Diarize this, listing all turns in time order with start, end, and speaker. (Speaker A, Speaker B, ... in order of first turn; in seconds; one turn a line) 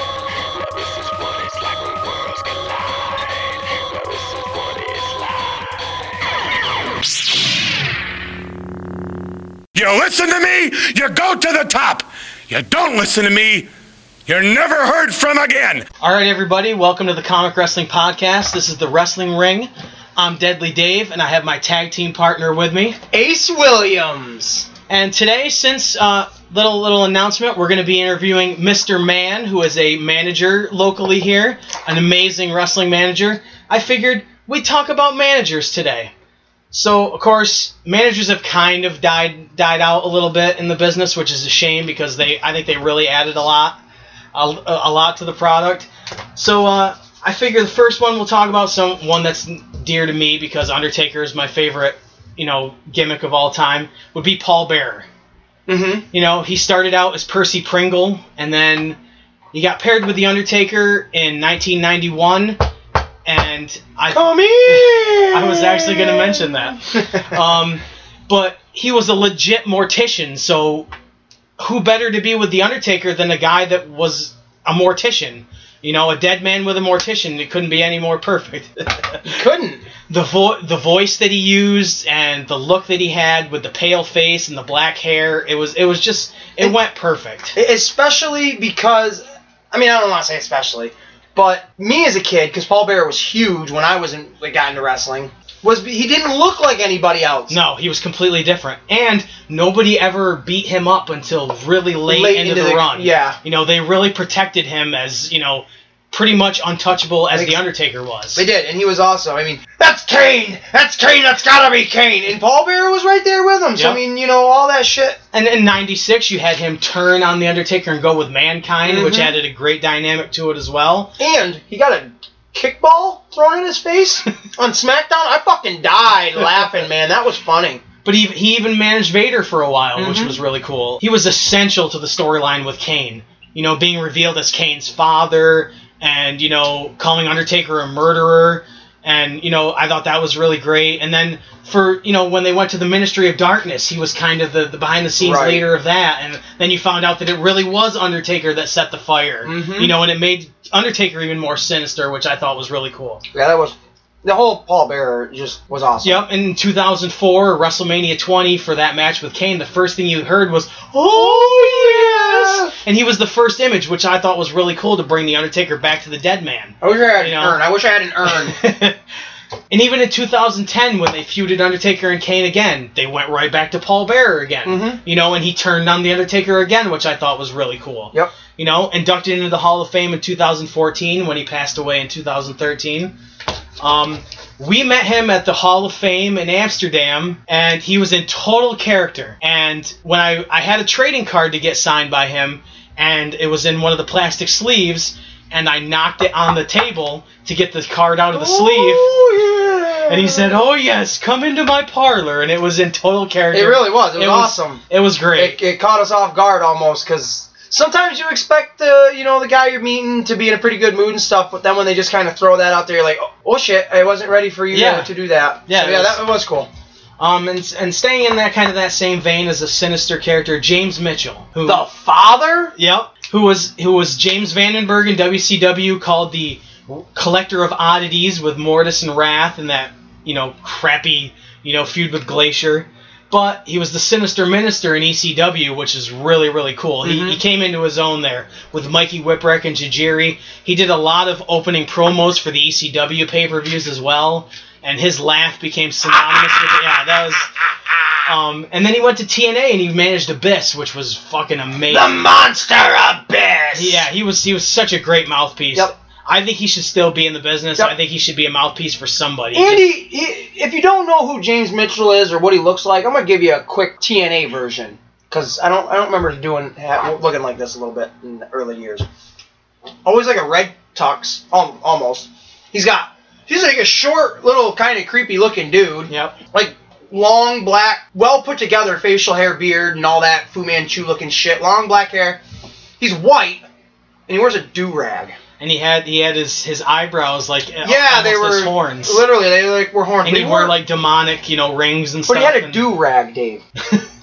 Speaker A: 0.5-5.7
Speaker A: 9.8-13.7
Speaker A: 14.3-15.8
Speaker B: 16.0-23.0
Speaker C: 23.1-24.7
Speaker B: 24.9-36.1
Speaker B: 36.7-43.8
Speaker B: 44.3-55.1
Speaker C: 55.7-56.0
Speaker B: 56.1-59.0
Speaker B: 59.5-62.6
Speaker B: 63.2-70.9
Speaker C: 64.1-66.5
Speaker B: 71.6-79.2
Speaker C: 79.2-79.9
Speaker B: 80.1-87.6
Speaker C: 87.5-97.6
Speaker B: 97.5-108.5
Speaker C: 102.1-103.4
Speaker C: 107.3-107.6
Speaker C: 108.3-115.2
Speaker B: 113.8-114.0
Speaker B: 115.3-121.1
Speaker C: 118.8-119.3
Speaker C: 121.2-127.8
Speaker B: 128.0-153.2
Speaker C: 130.0-130.4
Speaker C: 145.2-145.6
Speaker C: 149.4-149.9
Speaker C: 153.3-156.2
Speaker B: 156.0-167.6
Speaker C: 161.1-162.7
Speaker C: 166.8-168.6
Speaker B: 168.2-169.0
Speaker B: 169.7-183.1
Speaker C: 174.7-175.0
Speaker B: 183.8-199.1
Speaker C: 198.3-200.6
Speaker B: 200.1-205.6
Speaker C: 203.5-204.8
Speaker C: 205.3-216.7
Speaker B: 214.7-215.1
Speaker B: 215.7-216.2
Speaker B: 217.2-221.8
Speaker C: 221.7-222.8
Speaker B: 222.8-247.5
Speaker C: 237.0-237.4
Speaker B: 248.2-252.2
Speaker C: 251.9-254.1
Speaker B: 253.7-259.9
Speaker C: 259.5-269.1
Speaker C: 270.1-282.4
Speaker B: 276.1-276.3
Speaker C: 283.0-283.6
Speaker C: 284.3-285.4
Speaker B: 285.6-289.2
Speaker C: 287.8-290.8
Speaker B: 290.2-292.8
Speaker C: 292.2-293.6